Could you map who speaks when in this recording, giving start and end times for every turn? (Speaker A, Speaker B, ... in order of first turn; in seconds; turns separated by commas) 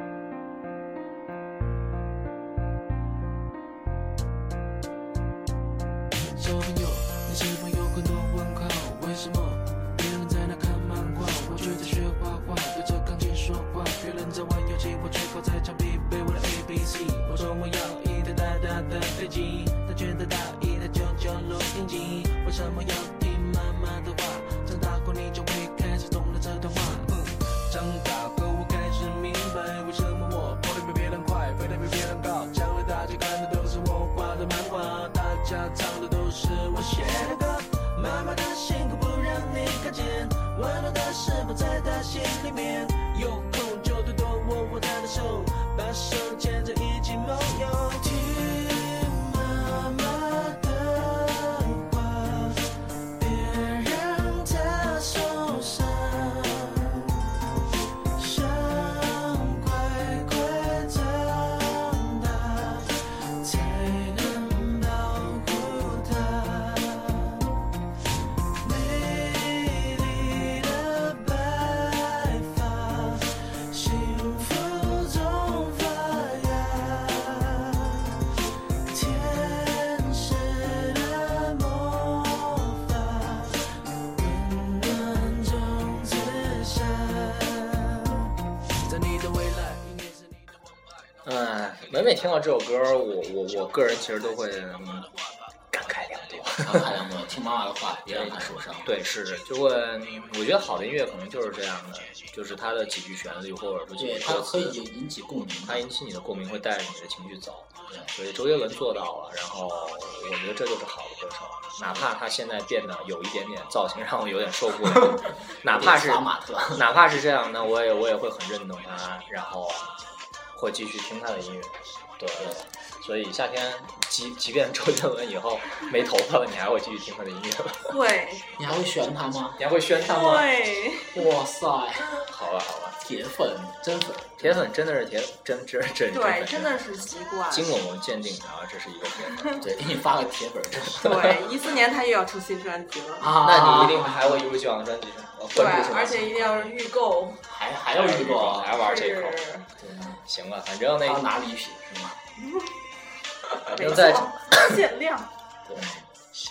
Speaker A: 6.4-57.2, Speaker A: 58.1-67.5, Speaker A: 68.6-78.2, Speaker A: 78.9-88.3, Speaker A: 88.8-90.4, Speaker B: 91.2-95.1, Speaker B: 95.7-97.0, Speaker C: 96.6-98.9, Speaker B: 98.1-104.8, Speaker C: 104.0-105.9, Speaker B: 105.6-120.0, Speaker C: 114.7-116.8, Speaker B: 120.5-128.0, Speaker C: 122.4-122.6, Speaker D: 127.9-128.5, Speaker C: 128.6-129.6, Speaker B: 129.6-130.6, Speaker D: 130.1-131.3, Speaker C: 131.1-132.1, Speaker B: 132.0-133.0, Speaker C: 133.0-134.6, Speaker B: 134.4-139.6, Speaker D: 136.1-137.8, Speaker C: 139.6-141.3, Speaker B: 140.9-141.3, Speaker D: 141.0-143.3, Speaker C: 143.2-144.5, Speaker B: 143.4-146.7, Speaker D: 145.5-147.4, Speaker C: 147.4-148.9, Speaker B: 147.9-149.4, Speaker D: 148.8-149.7, Speaker C: 149.8-150.2, Speaker B: 150.2-151.2, Speaker C: 151.0-152.2, Speaker D: 152.4-152.7, Speaker B: 153.6-154.8, Speaker D: 153.7-155.3, Speaker C: 155.7-156.1